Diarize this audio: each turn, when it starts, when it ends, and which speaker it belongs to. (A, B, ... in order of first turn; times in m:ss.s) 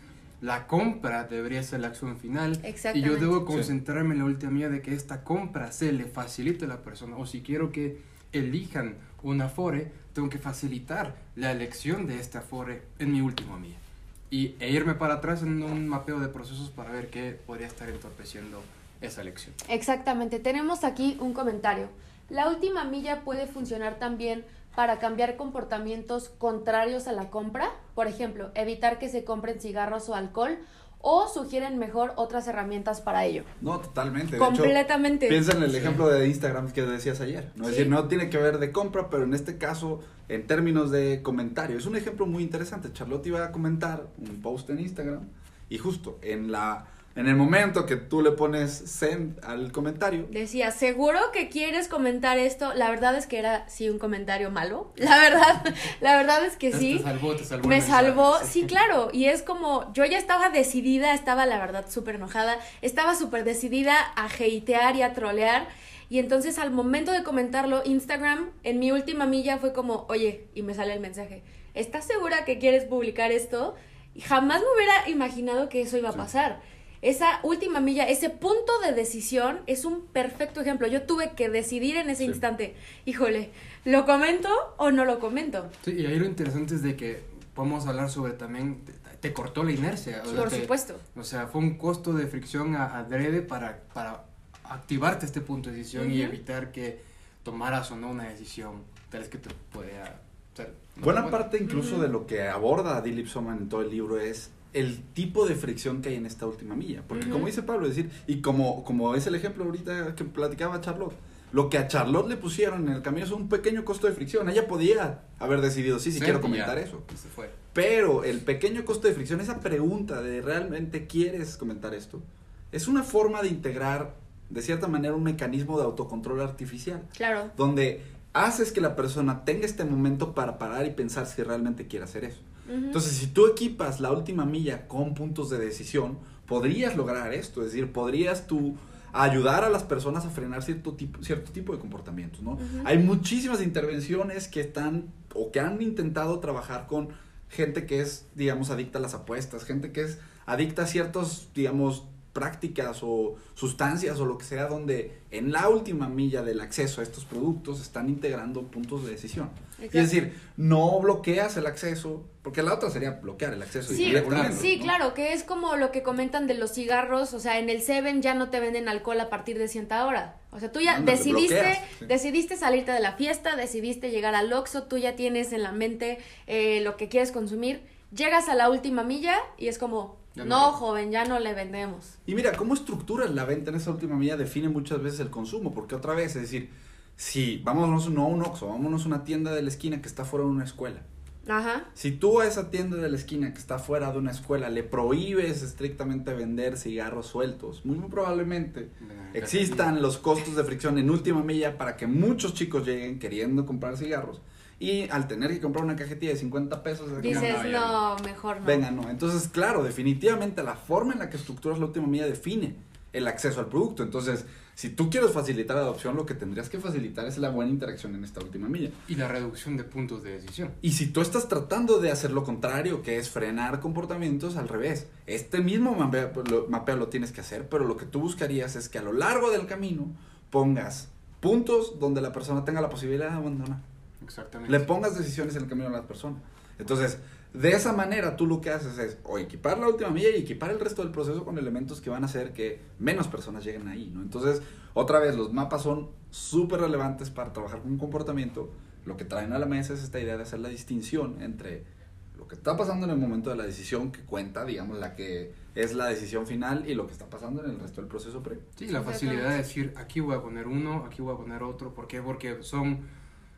0:00.4-0:19.6 A
0:02.6-0:03.3 B
0:19.7-0:33.5 B
0:33.6-0:50.3 C
0:34.4-0:35.4 B
0:35.7-0:36.0 A
0:37.6-0:37.9 B
0:50.3-0:57.1 B
0:56.7-0:58.7 A
0:57.6-1:25.7 B
1:25.8-1:41.4 A
1:30.3-1:31.0 B
1:36.0-1:36.4 B
1:41.0-1:57.2 C
1:41.7-1:42.0 B
1:47.1-1:47.5 B
1:56.1-1:57.5 A
1:57.7-2:44.9 C
2:07.2-2:07.5 B
2:12.7-2:13.0 B
2:22.6-2:22.9 B
2:39.8-2:40.1 B
2:43.9-2:44.7 A
2:43.9-3:02.2 B
2:50.9-2:52.1 C
3:00.4-3:00.7 A
3:02.3-3:11.0 C
3:11.5-3:11.9 B
3:12.0-3:27.6 C
3:19.0-3:19.9 A
3:27.2-3:28.9 B
3:27.2-3:28.0 A
3:28.6-3:39.0 C
3:39.1-3:40.8 A
3:40.8-3:53.8 C
3:54.2-3:54.9 A
3:54.7-4:18.7 C
4:18.8-4:23.0 A
4:18.9-4:19.5 B